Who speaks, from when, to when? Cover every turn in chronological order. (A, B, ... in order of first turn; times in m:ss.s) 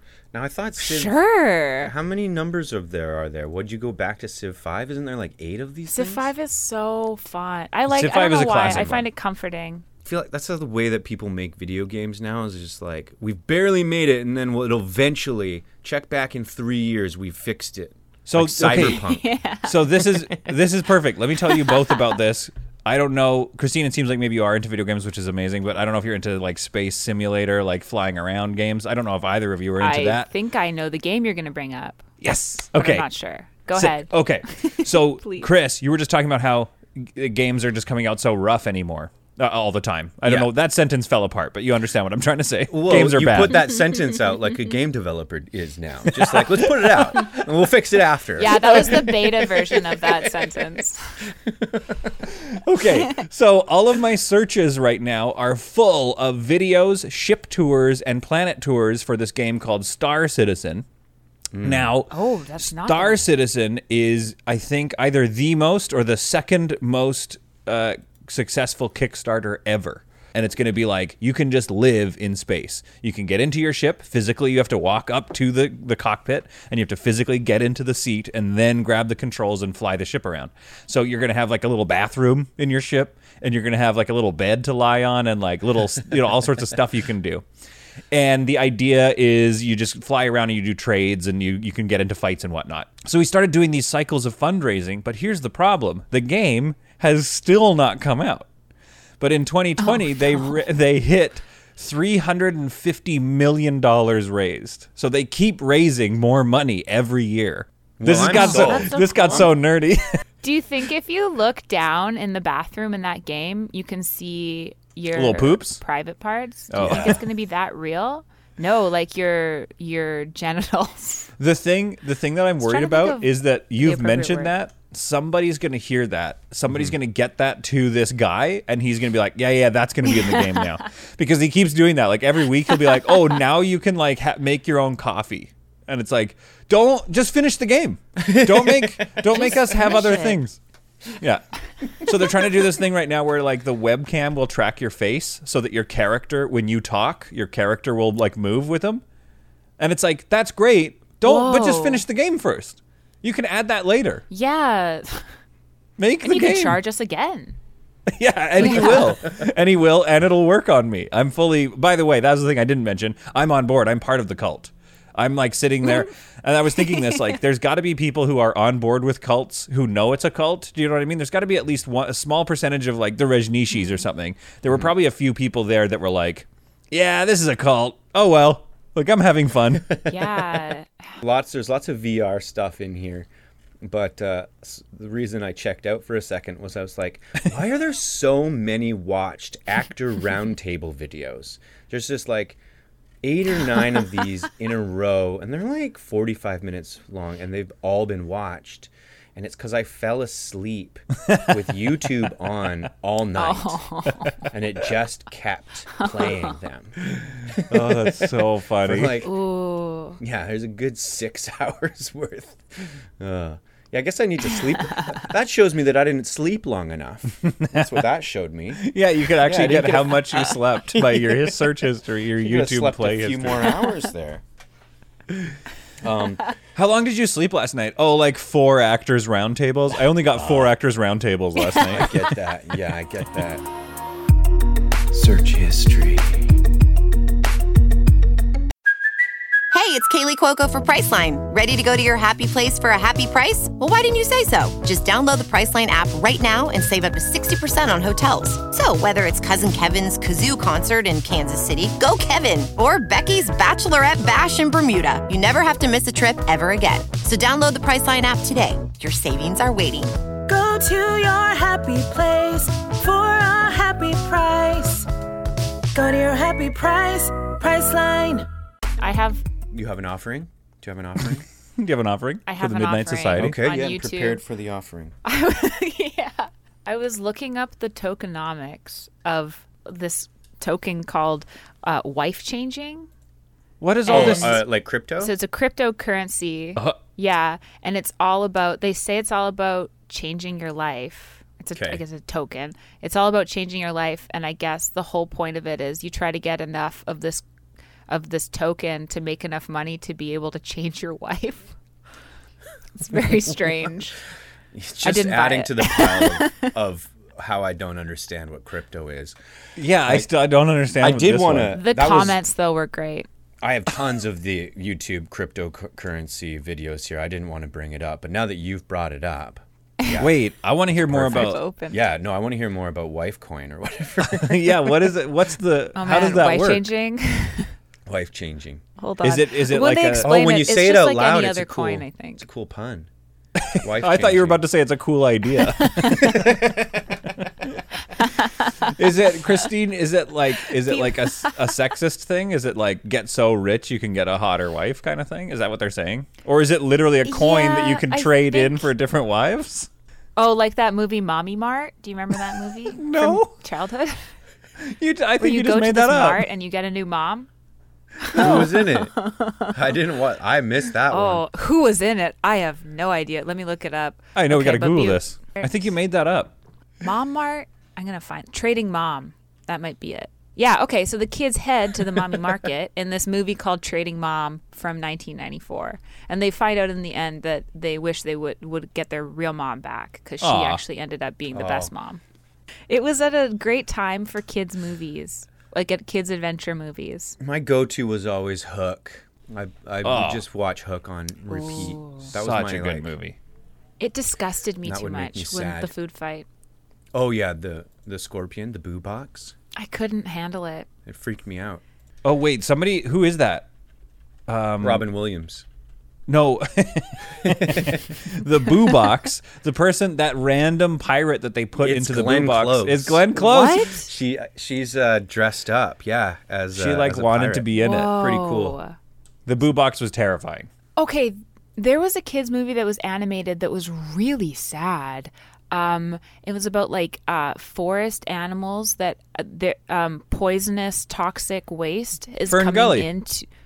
0:00.3-0:01.2 A
0:00.8-0:01.9 B
0:01.8-0:06.3 A
0:05.9-0:09.8 B
0:07.9-0:09.0 C
0:10.0-0:19.3 A
0:18.3-0:19.0 C
0:18.7-0:20.3 B
0:19.6-0:30.3 C
0:29.8-0:35.5 B
0:32.2-0:33.1 C
0:33.7-0:43.7 C
0:40.3-0:40.5 A
0:42.7-0:49.2 A
0:46.2-0:47.3 C
0:48.4-0:51.2 B
0:48.6-0:49.1 C
0:51.5-0:51.9 A
0:52.2-1:00.9 C
1:01.5-1:01.9 A
1:01.6-1:27.4 C
1:02.1-1:03.2 B
1:28.1-1:38.5 C
1:39.2-1:50.2 C
1:39.8-1:40.5 B
1:48.0-1:49.5 A
1:48.3-1:49.5 B
1:50.4-2:01.3 B
1:55.1-1:55.8 C
1:56.7-1:57.2 C
1:56.8-1:57.2 A
2:01.4-2:20.6 C
2:02.6-2:04.5 B
2:06.7-2:06.9 A
2:10.2-2:10.7 B
2:18.2-2:19.1 A
2:19.2-2:20.4 B
2:21.2-2:21.4 C
2:22.0-2:29.0 C
2:29.8-2:34.2 C
2:31.2-2:32.0 B
2:34.3-2:35.3 B
2:36.0-2:36.8 C
2:36.2-2:37.6 B
2:38.1-2:59.9 C
2:38.6-2:39.2 B
2:53.8-2:54.0 B
2:59.9-3:00.4 A
3:00.1-3:01.2 B
3:01.2-3:03.3 A
3:03.8-3:12.6 A
3:13.2-3:23.8 A
3:23.4-3:24.5 B
3:24.4-3:28.3 A
3:26.0-3:26.5 B
3:27.2-3:29.2 C
3:28.8-3:29.3 A
3:29.2-3:30.2 B
3:30.2-3:32.6 A
3:33.2-3:38.8 A
3:37.4-3:38.0 C
3:38.8-3:43.9 C
3:39.4-3:41.7 A
3:42.4-3:44.4 A
3:46.0-3:46.5 A
3:46.8-3:52.2 C
3:50.3-3:50.7 A
3:51.9-3:53.6 A
3:55.1-3:56.5 A
3:59.7-4:20.3 D
4:20.5-4:25.1 E
4:20.6-4:24.6 B
4:25.9-4:28.4 E
4:26.5-4:27.0 B
4:27.8-4:28.2 B
4:29.0-4:29.4 B
4:29.7-4:31.4 A
4:31.8-4:33.6 C
4:32.5-4:34.4 B
4:33.4-4:35.2 A
4:35.2-4:43.1 B
4:43.8-4:44.6 C
4:44.1-4:44.7 B
4:44.1-4:45.3 A
4:45.2-4:57.4 B
4:51.8-4:52.0 A
4:58.1-5:01.6 B
5:03.0-5:04.2 B
5:04.7-5:09.4 A
5:05.0-5:06.7 B
5:09.8-5:11.8 C
5:11.0-5:12.4 A
5:11.7-5:13.3 B
5:13.6-5:20.4 A
5:20.2-5:21.6 C
5:20.9-5:25.0 A
5:21.1-5:22.0 B
5:24.2-5:26.8 C
5:26.0-5:27.7 B
5:28.1-5:28.8 A
5:29.0-5:32.4 B
5:29.2-5:30.3 C
5:30.2-5:33.1 A
5:33.6-5:36.6 C
5:33.8-5:34.6 A
5:35.9-5:36.2 B
5:36.1-5:37.0 A
5:38.4-5:39.0 B
5:38.9-5:49.9 C
5:40.7-5:41.8 B
5:47.2-5:48.9 B
5:50.4-5:54.3 B
5:52.9-5:53.5 C
5:54.8-5:56.5 C
5:55.4-5:57.5 B
5:58.2-5:59.8 B
5:58.3-6:01.4 A
6:01.1-6:05.9 B
6:04.4-6:06.5 C
6:07.0-6:22.2 B
6:20.4-6:20.8 C
6:21.5-6:21.9 A
6:22.9-6:27.4 B
6:27.4-6:33.1 A
6:30.0-6:30.4 C
6:31.5-6:32.3 B
6:32.2-6:33.4 C
6:34.0-6:36.5 B
6:34.8-6:35.9 A
6:37.1-6:39.6 A
6:39.8-6:40.9 B
6:41.1-6:41.8 A
6:42.2-6:43.7 C
6:44.5-6:45.1 C
6:44.8-6:45.6 A
6:46.3-6:53.9 C
6:47.4-6:48.0 A
6:51.8-6:53.3 A
6:53.4-6:54.1 B
6:53.9-6:57.7 A
6:56.7-6:58.8 C
6:57.8-6:59.0 B
6:59.5-7:00.7 C
7:01.0-7:13.5 B
7:12.5-7:13.1 C